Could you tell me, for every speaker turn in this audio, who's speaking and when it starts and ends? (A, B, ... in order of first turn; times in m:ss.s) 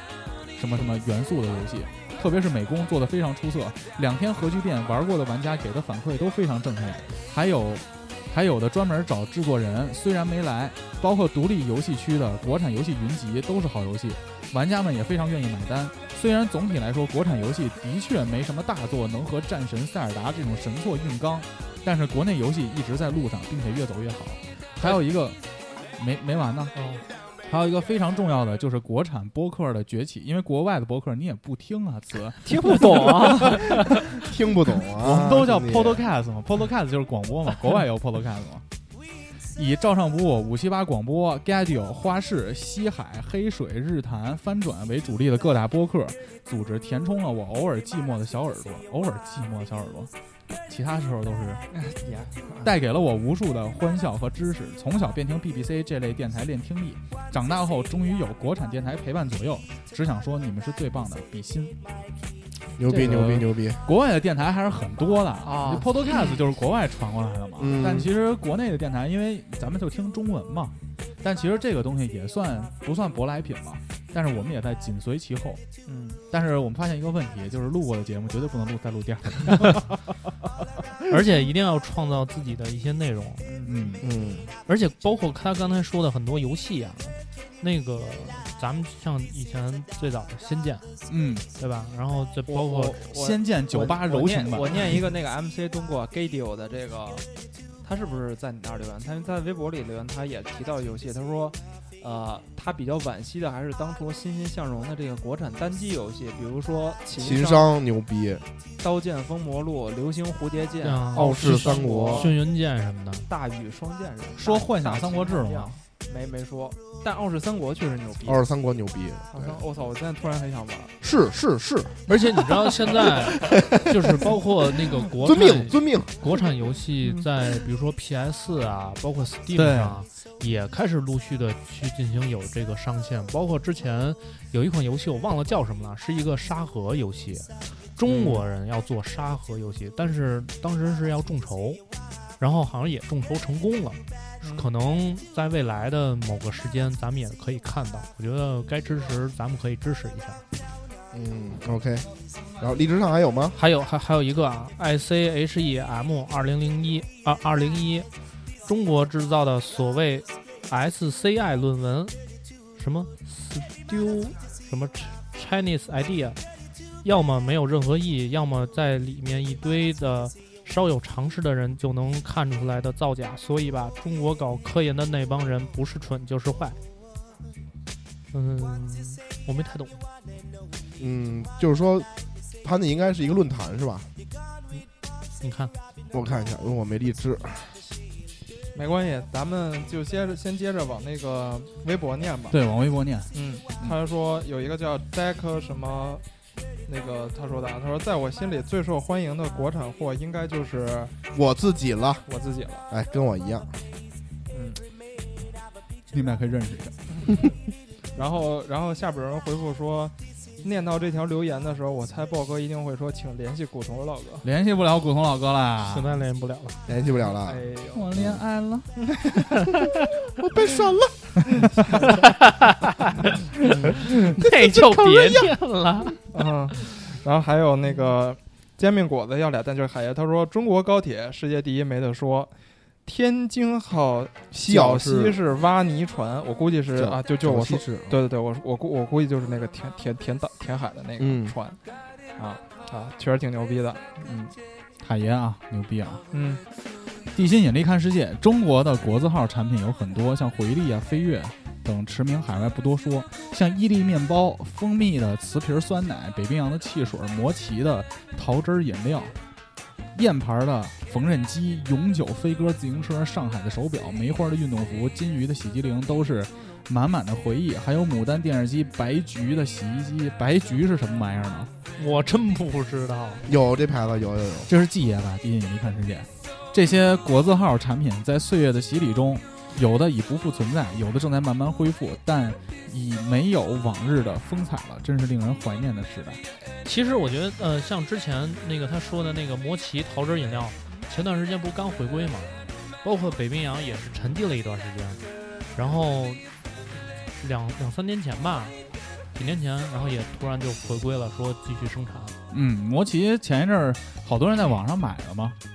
0:00.6-0:25.4 A
0:26.0-0:26.7 A
0:26.8-0:27.0 B
0:27.5-0:33.6 A
0:32.4-0:34.0 C
0:34.2-0:36.0 D
0:35.0-0:38.6 A
0:39.6-0:50.1 A
0:50.7-0:51.6 A
0:51.7-0:52.8 C
0:52.6-1:01.8 A
1:02.8-1:03.8 D
1:02.8-1:15.6 A
1:05.4-1:05.9 C
1:07.6-1:08.1 D
1:15.9-1:16.2 C
1:16.3-1:20.0 A
1:21.1-1:23.4 B
1:23.4-1:24.0 C
1:23.6-1:24.0 A
1:24.0-1:24.5 D
1:24.7-1:30.9 B
1:31.1-1:31.5 A
1:31.6-1:33.0 B
1:32.5-1:37.3 C
1:33.1-1:34.9 A
1:37.8-1:47.7 C
1:47.2-1:48.4 D
1:48.8-1:52.3 C
1:50.8-1:53.3 B
1:51.2-1:52.3 D
1:53.3-1:58.4 C
1:54.4-1:55.8 A
1:58.2-1:59.6 D
1:59.3-2:01.0 C
2:01.0-2:02.0 D
2:02.1-2:21.8 B
2:03.4-2:04.0 D
2:05.2-2:06.1 D
2:09.6-2:10.0 A
2:18.1-2:18.4 C
2:22.4-2:30.4 B
2:24.4-2:24.7 C
2:31.1-2:32.1 D
2:32.6-2:33.6 D
2:33.5-2:38.1 B
2:38.6-2:42.2 B
2:42.8-2:46.4 B
2:47.0-2:56.8 B
2:58.3-3:00.0 B
3:01.0-3:02.1 D
3:02.6-3:04.1 D
3:05.4-3:05.7 B
3:06.1-3:07.8 D
3:08.7-3:12.6 C
3:12.5-3:14.0 A
3:13.3-3:16.2 C
3:16.9-3:21.2 C
3:21.3-3:22.2 D
3:22.3-3:22.8 C
3:22.9-3:23.7 D
3:24.5-3:24.8 C
3:26.1-3:27.0 A
3:28.2-3:34.5 C
3:34.4-3:36.1 A
3:35.8-3:36.8 B
3:36.9-3:37.7 D
3:37.4-3:38.1 C
3:37.9-3:39.0 A
3:40.4-3:41.3 D
3:41.9-3:42.2 C
3:42.3-3:42.7 B
3:43.7-3:44.0 C
3:44.4-3:46.2 B
3:46.3-3:52.5 C
3:53.1-4:01.8 C
3:54.5-3:55.4 D
3:57.0-3:58.2 D
4:01.2-4:01.6 D
4:02.4-4:04.3 C
4:04.2-4:04.5 D
4:05.0-4:06.2 A
4:06.3-4:06.6 C
4:07.3-4:19.3 A
4:20.1-4:31.7 A
4:32.0-4:33.4 B
4:33.5-4:34.7 D
4:34.7-4:46.4 A
4:46.8-4:55.2 B
4:55.7-4:56.4 B
4:57.4-4:58.8 B
4:59.3-5:02.4 B
5:02.5-5:05.6 A